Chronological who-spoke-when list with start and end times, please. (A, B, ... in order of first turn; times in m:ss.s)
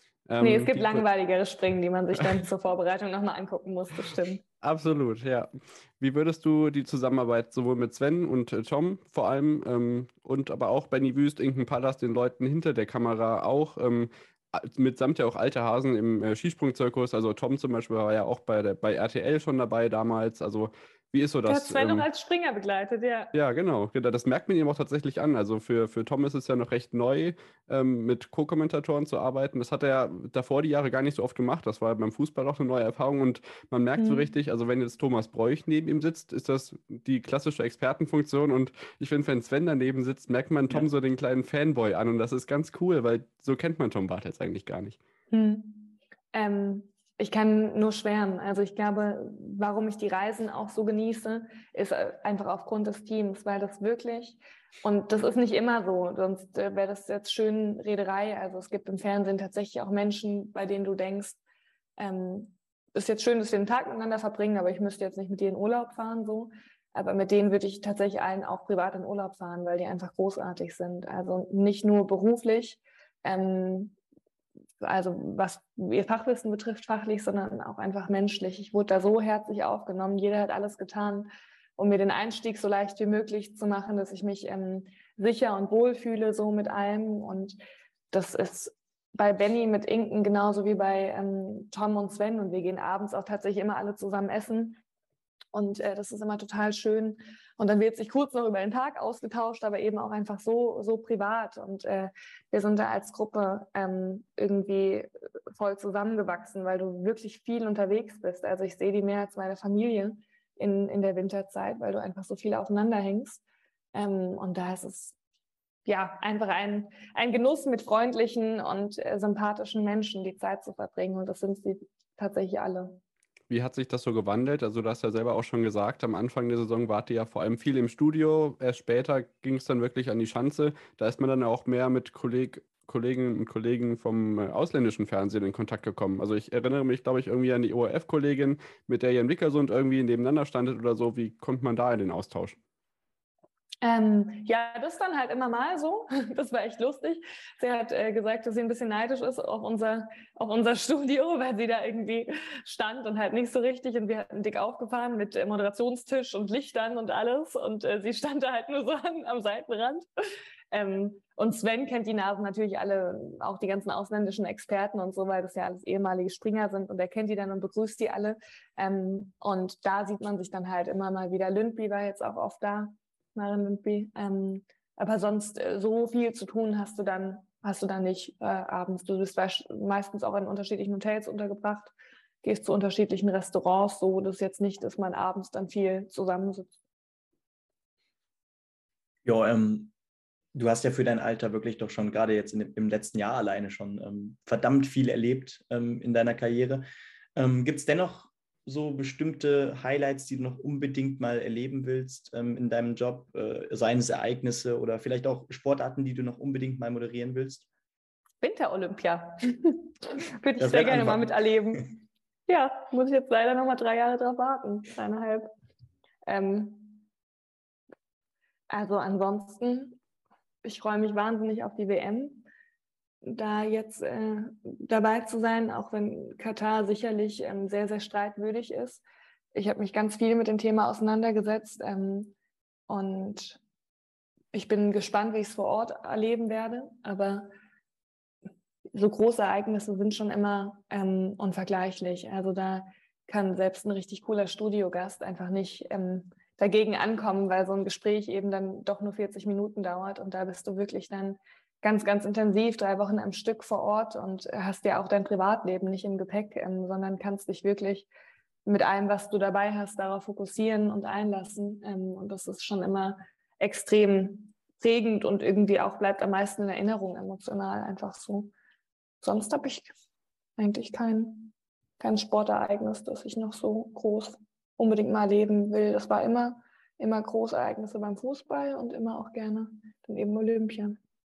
0:00.3-0:01.0 A
0:00.4-0:04.4 B
0:04.6-0:22.0 A
0:21.5-0:23.3 B
0:23.3-0:45.0 A
0:34.0-0:34.3 B
0:45.3-1:01.4 B
1:02.0-1:13.9 B
1:14.8-1:27.6 B
1:28.1-1:34.8 B
1:35.5-1:53.4 B
1:53.9-1:55.2 B
1:55.8-2:03.0 B
2:03.5-2:22.6 A
2:23.8-2:40.0 B
2:40.7-3:06.7 B
3:09.2-3:09.9 C
3:10.5-3:16.8 C
3:17.4-3:27.6 C
3:28.4-3:35.5 B
3:30.6-3:31.3 C
3:36.3-3:37.1 B
3:38.7-3:40.0 B
3:40.6-3:42.5 B
3:43.2-3:49.0 B
3:49.5-3:52.3 B
3:52.9-3:53.6 B
3:54.5-3:57.5 B
3:58.9-4:18.1 B
4:18.6-4:28.5 B
4:29.2-4:29.9 B
4:30.6-4:41.0 B